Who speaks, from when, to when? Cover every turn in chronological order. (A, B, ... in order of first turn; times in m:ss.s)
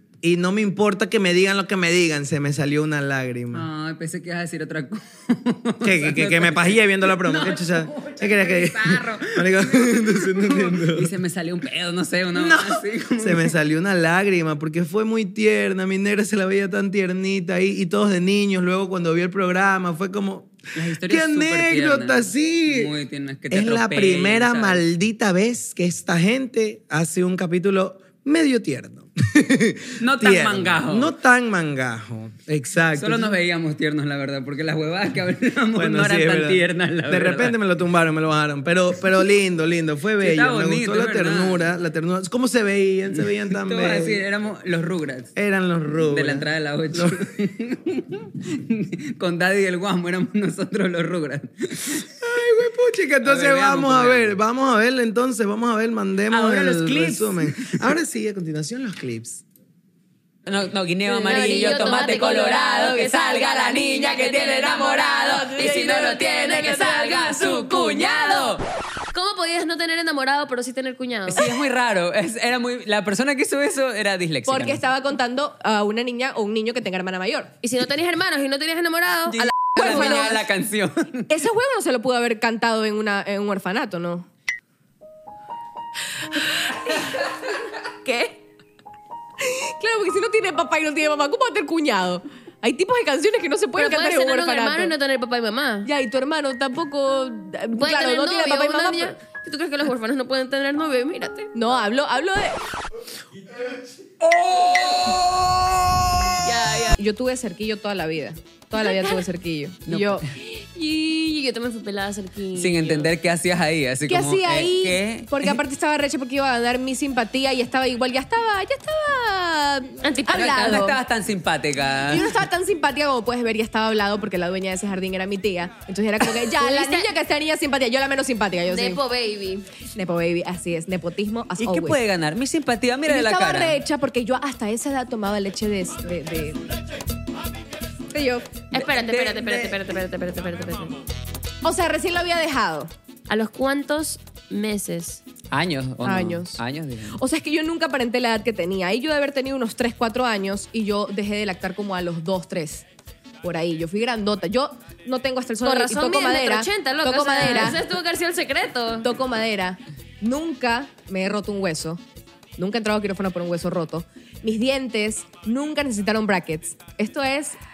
0:00.2-0:03.6 A
0:03.5-0:13.5 B
0:05.8-0:11.1 A
0:12.3-0:22.9 A
0:20.7-0:24.8 B
0:23.5-0:33.4 A
0:30.0-0:31.1 B
0:33.0-0:37.6 B
0:35.7-0:44.2 A
0:40.2-0:41.7 B
0:43.5-0:45.3 B
0:45.4-0:47.2 A
0:46.1-0:52.0 B
0:52.2-0:59.4 A
0:53.2-0:54.4 B
0:56.3-0:57.9 B
1:00.4-1:08.6 B
1:01.1-1:08.6 C
1:01.2-1:02.2 D
1:05.4-1:07.5 D
1:09.1-1:11.6 C
1:11.3-1:14.8 B
1:14.4-1:17.5 D
1:17.6-1:20.4 C
1:19.3-1:21.3 B
1:19.6-1:20.4 D
1:21.3-1:24.3 D
1:26.3-1:27.0 D
1:28.0-1:28.3 D
1:29.4-1:34.9 D
1:33.8-1:35.9 C
1:35.8-1:39.1 D
1:37.8-1:41.5 C
1:41.5-1:42.6 D
1:44.2-1:45.8 B
1:44.4-1:45.0 C
1:46.4-1:47.0 C
1:47.0-1:50.2 D
1:48.8-1:49.2 C
1:49.9-1:50.2 B
1:50.4-1:53.1 C
1:52.5-1:55.6 B
1:54.1-2:01.0 D
2:00.0-2:00.8 C
2:00.3-2:02.3 B
2:02.1-2:09.0 D
2:06.4-2:07.1 C
2:08.7-2:09.7 C
2:09.8-2:12.0 D
2:11.6-2:13.8 B
2:13.1-2:16.6 D
2:18.1-2:18.5 D
2:18.7-2:20.9 C
2:18.7-2:19.8 B
2:21.6-2:22.9 D
2:23.3-2:25.2 C
2:25.5-2:27.2 B
2:26.0-2:26.6 D
2:27.1-2:32.8 D
2:33.4-2:37.8 D
2:35.6-2:39.1 C
2:39.0-2:42.0 D
2:42.6-2:47.6 D